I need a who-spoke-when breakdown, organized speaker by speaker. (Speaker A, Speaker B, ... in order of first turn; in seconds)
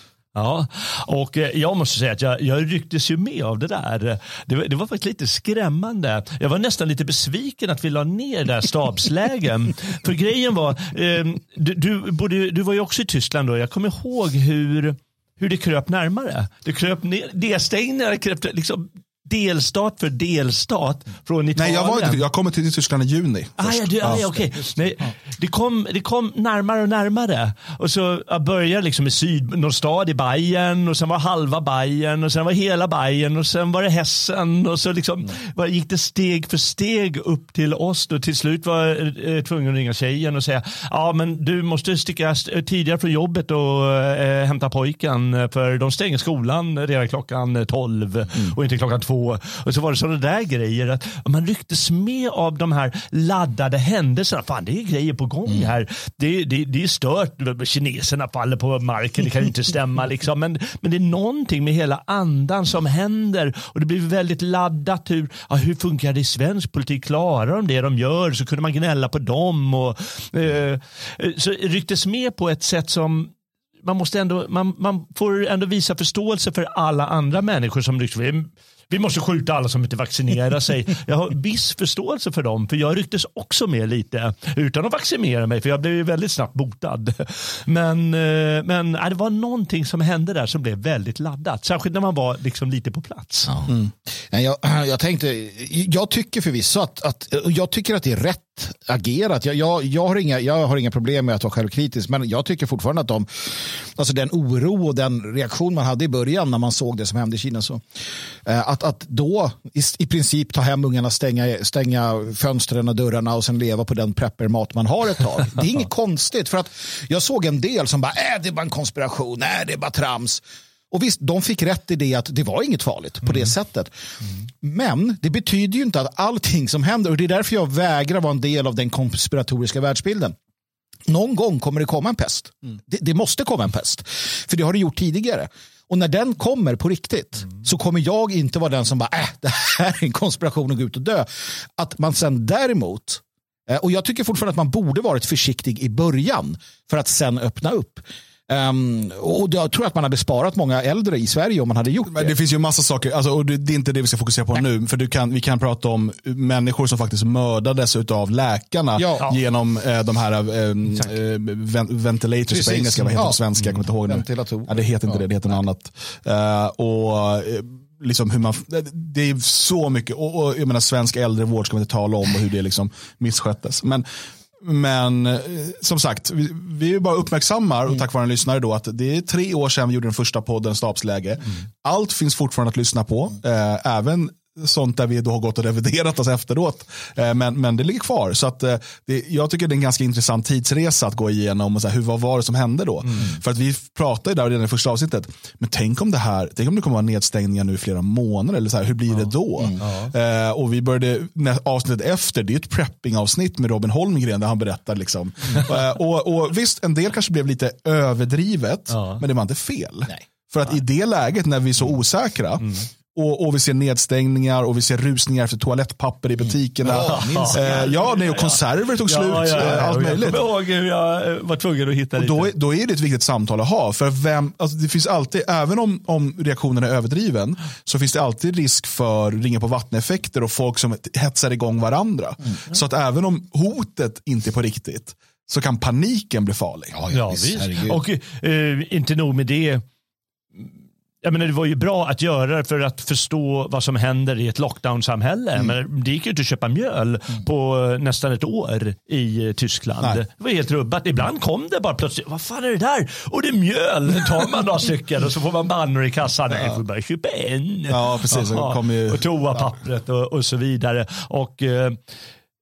Speaker A: 0.3-22.2, 23.6-73.3, 73.8-93.5, 199.8-200.1, 208.9-209.2, 216.9-222.5, 237.1-239.8, 241.2-262.0
Speaker B: 21.6-24.2, 152.1-174.1, 174.6-220.4, 222.2-237.0, 257.9-259.2
Speaker C: 93.5-93.8, 94.3-107.8, 108.4-123.9, 124.6-130.3, 131.1-152.3, 158.9-159.3, 162.5-163.4, 164.1-165.6, 216.8-218.1, 236.9-238.0